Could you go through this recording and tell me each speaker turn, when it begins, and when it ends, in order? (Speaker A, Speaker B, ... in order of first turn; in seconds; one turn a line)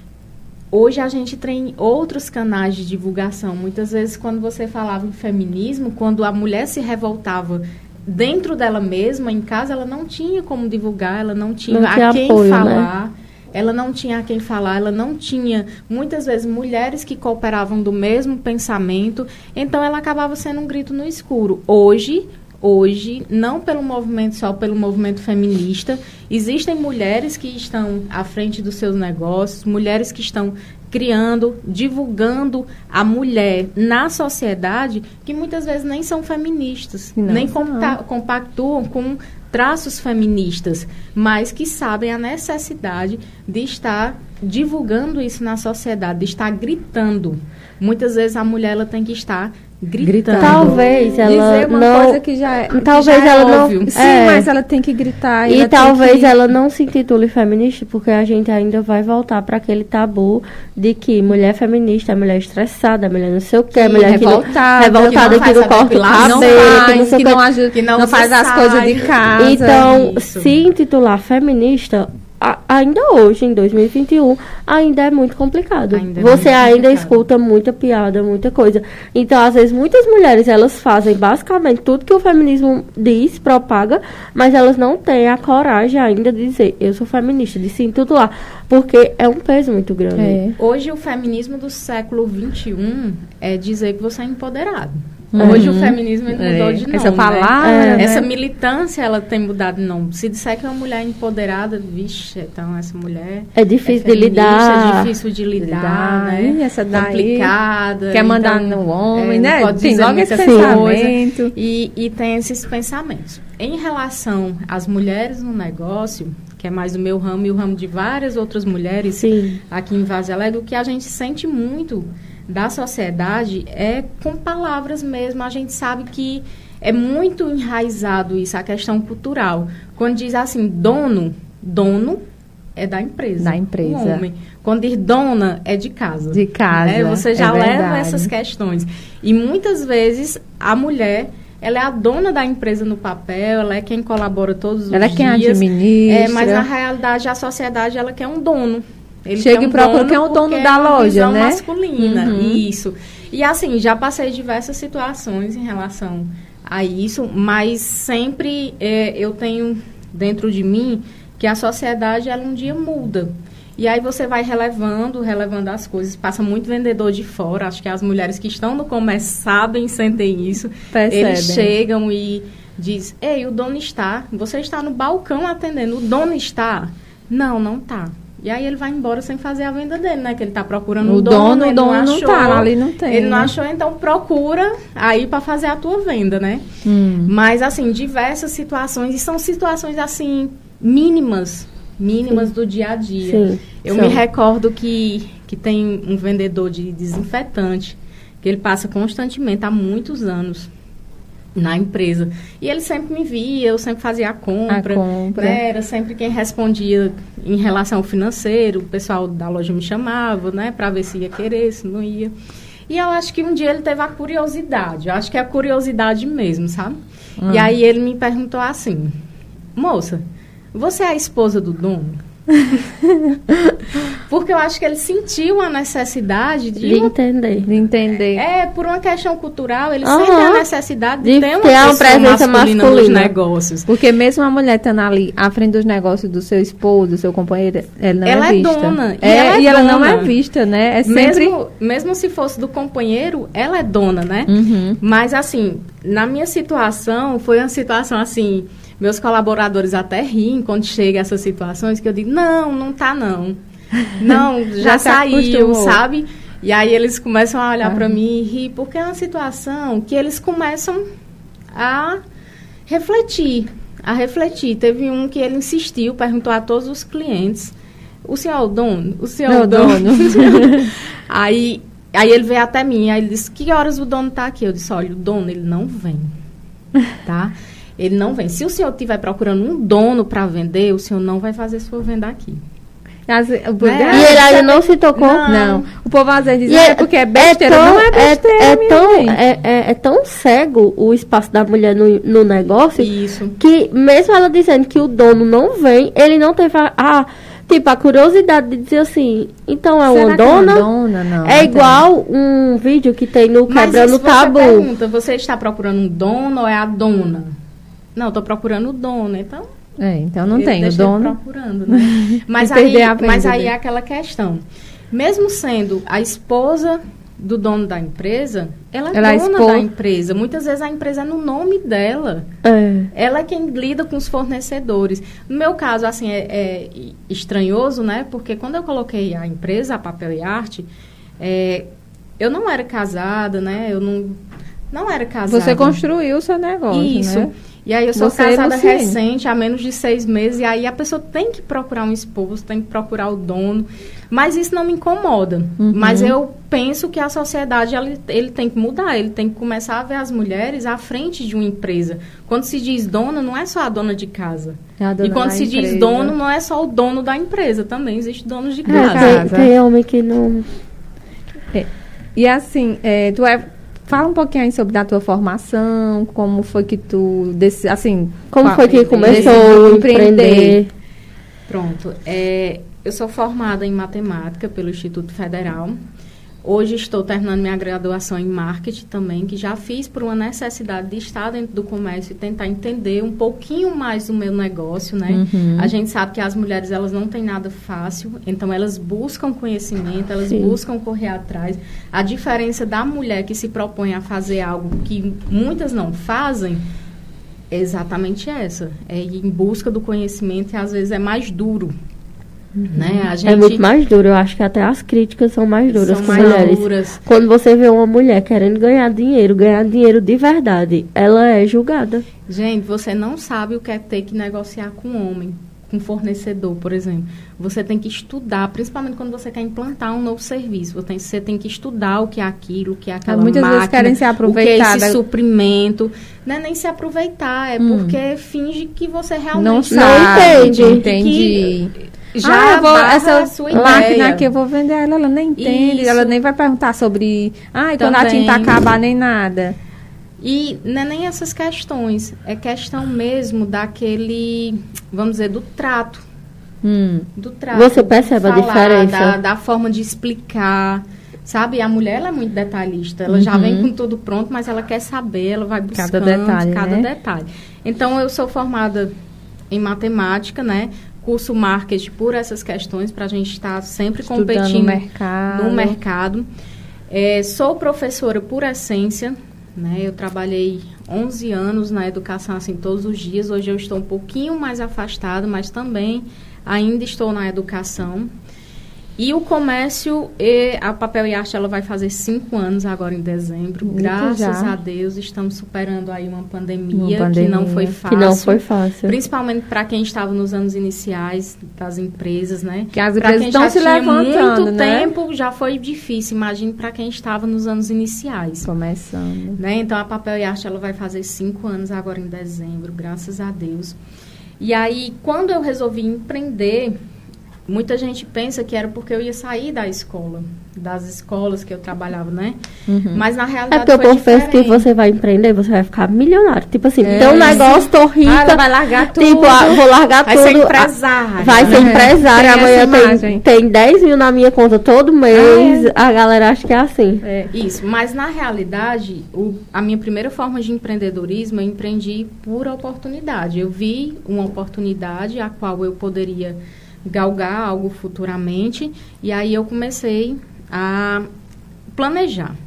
Speaker A: 0.7-50.8
Speaker B: 11.7-12.9
Speaker C: 37.2-38.0
Speaker C: 50.0-56.3
Speaker B: 50.4-54.5
Speaker A: 53.1-53.9
Speaker B: 55.5-67.4
Speaker A: 63.7-64.2
Speaker C: 64.0-65.5
Speaker A: 65.1-67.0
Speaker C: 66.1-69.9
Speaker A: 67.7-70.5
Speaker B: 69.4-90.4
Speaker A: 75.9-77.2
Speaker C: 90.2-90.6
Speaker A: 90.6-132.2
Speaker C: 95.3-98.3
Speaker B: 95.4-95.7
Speaker B: 97.6-98.1
Speaker B: 103.6-105.1
Speaker C: 105.6-107.5
Speaker C: 108.1-111.5
Speaker B: 110.4-110.8
Speaker B: 119.2-119.6
Speaker A: 132.8-186.7
Speaker C: 133.4-134.2
Speaker C: 136.3-138.3
Speaker C: 144.9-146.7
Speaker C: 149.4-152.6
Speaker C: 170.9-171.7
Speaker C: 181.1-183.5
Speaker C: 186.8-187.3
Speaker A: 187.2-200.7
Speaker B: 193.2-194.2
Speaker A: 201.6-212.3
Speaker C: 204.7-205.6
Speaker A: 212.9-219.2
Speaker C: 217.4-217.7
Speaker A: 219.8-220.2
Speaker A: 220.7-222.2
Speaker A: 224.2-227.1
Speaker B: 226.8-227.7
Speaker C: 227.7-228.4
Speaker A: 228.3-233.9
Speaker B: 230.0-230.7
Speaker B: 231.2-233.3
Speaker C: 233.9-241.5
Speaker A: 238.2-240.3
Speaker A: 241.1-253.6
Speaker C: 244.5-245.0
Speaker A: 254.2-261.0
Speaker C: 254.3-256.0
Speaker C: 257.8-258.1
Speaker A: 261.7-262.2
Speaker A: 262.9-276.3
Speaker C: 269.5-270.9
Speaker A: 277.2-282.6
Speaker C: 283.3-284.4
Speaker A: 283.8-285.9
Speaker B: 284.1-285.4
Speaker C: 285.5-289.4
Speaker B: 286.7-300.9
Speaker A: 293.0-293.6
Speaker C: 300.1-302.0
Speaker B: 301.4-304.9
Speaker A: 303.7-307.5
Speaker A: 308.2-309.7
Speaker C: 310.0-311.4
Speaker A: 310.5-322.5
Speaker C: 311.9-313.7
Speaker C: 319.1-319.9
Speaker B: 322.6-323.1
Speaker A: 323.1-330.9
Speaker A: 331.4-331.9
Speaker A: 332.4-334.4
Speaker A: 334.9-336.0
Speaker C: 335.5-337.5
Speaker A: 336.9-359.5
Speaker C: 338.2-339.2
Speaker C: 345.8-346.4
Speaker C: 355.0-356.4
Speaker C: 358.9-359.7
Speaker B: 358.9-360.7
Speaker C: 361.7-370.8
Speaker B: 368.5-370.9
Speaker A: 368.9-369.8
Speaker A: 371.7-376.0
Speaker A: 376.6-396.8
Speaker C: 385.3-385.9
Speaker B: 390.5-390.8
Speaker A: 397.7-401.9
Speaker C: 402.8-403.3
Speaker A: 402.9-403.8
Speaker B: 403.5-412.2
Speaker A: 405.9-407.2
Speaker C: 406.2-406.8
Speaker A: 412.5-431.7
Speaker C: 423.3-425.2
Speaker C: 427.8-428.2
Speaker C: 429.6-431.9
Speaker B: 429.9-431.0
Speaker A: 432.3-434.5
Speaker C: 432.4-439.8
Speaker B: 433.7-434.1
Speaker A: 435.6-436.4
Speaker A: 438.0-438.8
Speaker A: 440.4-446.2
Speaker C: 446.8-447.3
Speaker A: 447.4-459.1
Speaker B: 447.7-449.4
Speaker C: 453.3-453.9
Speaker C: 455.9-457.1
Speaker A: 459.7-466.5
Speaker C: 464.3-466.0
Speaker A: 467.1-478.3
Speaker A: 479.2-498.7
Speaker C: 483.8-484.7
Speaker C: 486.9-487.9
Speaker B: 488.1-489.1
Speaker C: 492.9-495.1
Speaker C: 498.6-499.6
Speaker A: 499.6-504.0
Speaker A: 504.6-507.0
Speaker A: 507.7-512.6
Speaker C: 512.9-513.2
Speaker A: 513.1-514.9
Speaker B: 513.7-527.2
Speaker C: 517.0-519.8
Speaker A: 517.1-517.9
Speaker A: 520.2-522.1
Speaker C: 521.6-523.4
Speaker C: 525.3-525.9
Speaker C: 527.2-527.5
Speaker A: 527.5-541.3
Speaker A: 541.9-542.6